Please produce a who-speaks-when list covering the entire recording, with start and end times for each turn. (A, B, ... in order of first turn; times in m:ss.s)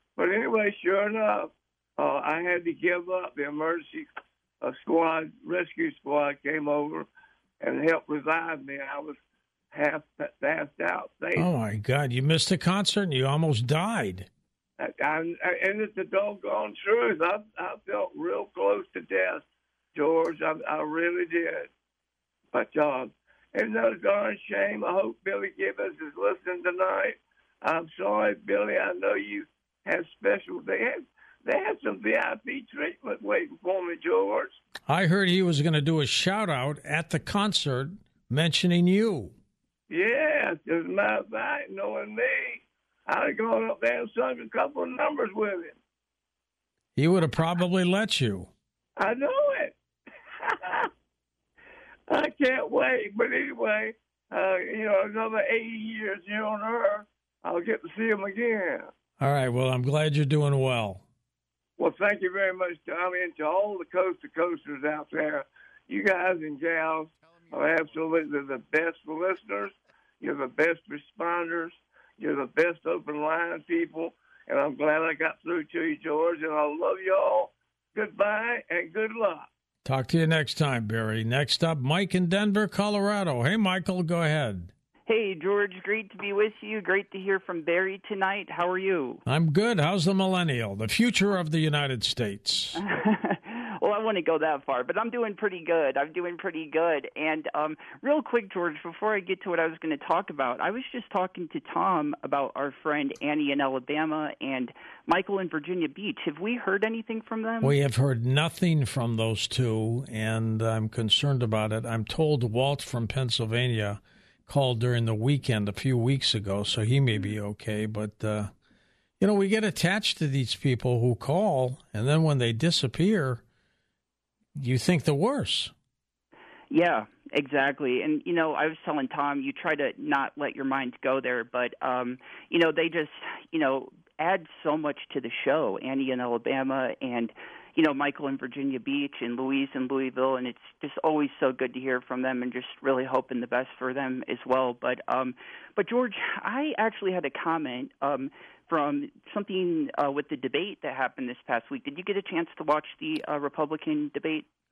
0:00.2-0:07.1 A
0:07.6-0:09.2 A
0:09.7-0:11.5 A
0:11.4-0:14.3 B
0:14.8-0:21.7 A
0:22.5-0:34.6 A
0:34.9-0:39.3 B
0:39.9-0:45.8 A
0:47.0-0:48.5 B
0:49.0-0:49.8 A
0:50.4-0:50.9 A
0:52.1-0:58.9 A
0:59.2-1:01.0 B
1:01.8-1:19.5 A
1:19.8-1:24.7 B
1:25.1-1:29.2 C
1:29.3-1:32.8 B
1:32.8-1:47.7 C
1:47.6-1:58.5 B
1:59.2-2:03.4 B
2:04.6-2:05.7 B
2:06.7-2:34.4 C